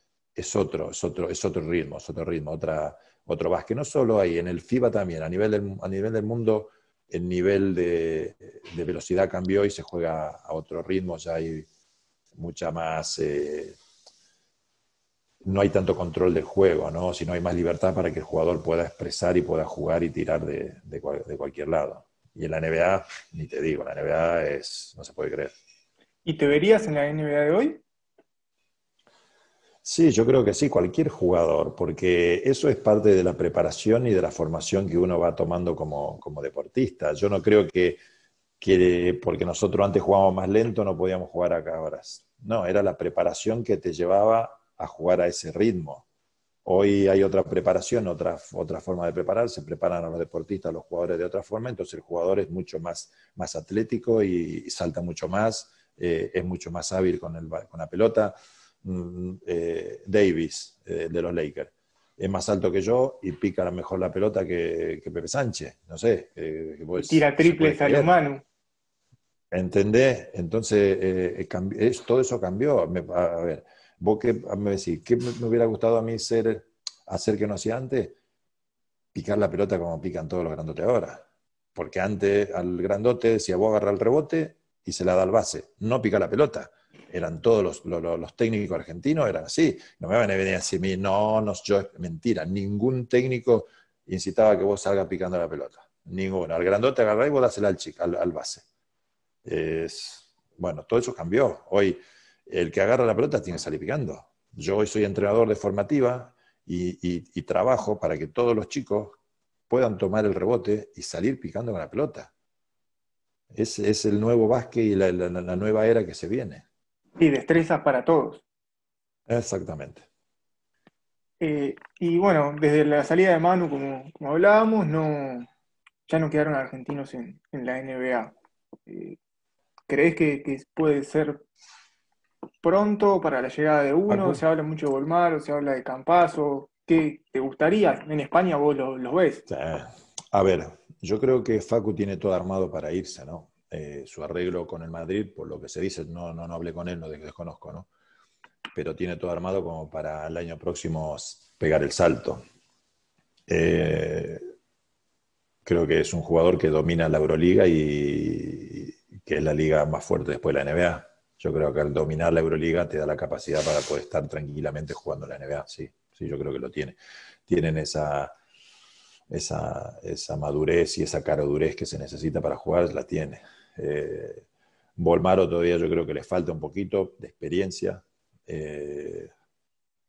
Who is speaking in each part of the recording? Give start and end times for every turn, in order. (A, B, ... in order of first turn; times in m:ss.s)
0:00.3-0:11.7 A
0:12.3-0:13.8 A
0:15.4-0:25.5 A
0:26.2-0:27.8 B
0:29.8-0:38.0 A
0:38.6-0:46.0 A
0:46.6-1:08.1 A
1:07.0-1:08.4 B
1:09.5-1:18.2 A
1:19.1-1:38.6 A
1:39.4-1:52.3 A
1:53.5-1:56.6 A
1:57.2-1:58.4 B
1:59.3-2:00.1 A
2:01.4-2:05.5 B
2:06.1-2:08.3 B
2:08.9-2:09.2 B
2:09.9-2:11.4 B
2:12.6-2:19.4 B
2:14.1-2:14.4 A
2:19.5-2:27.9 A
2:28.7-2:32.4 A
2:33.5-2:34.4 A
2:35.6-2:48.3 A
2:49.3-2:54.4 A
2:55.0-2:59.3 A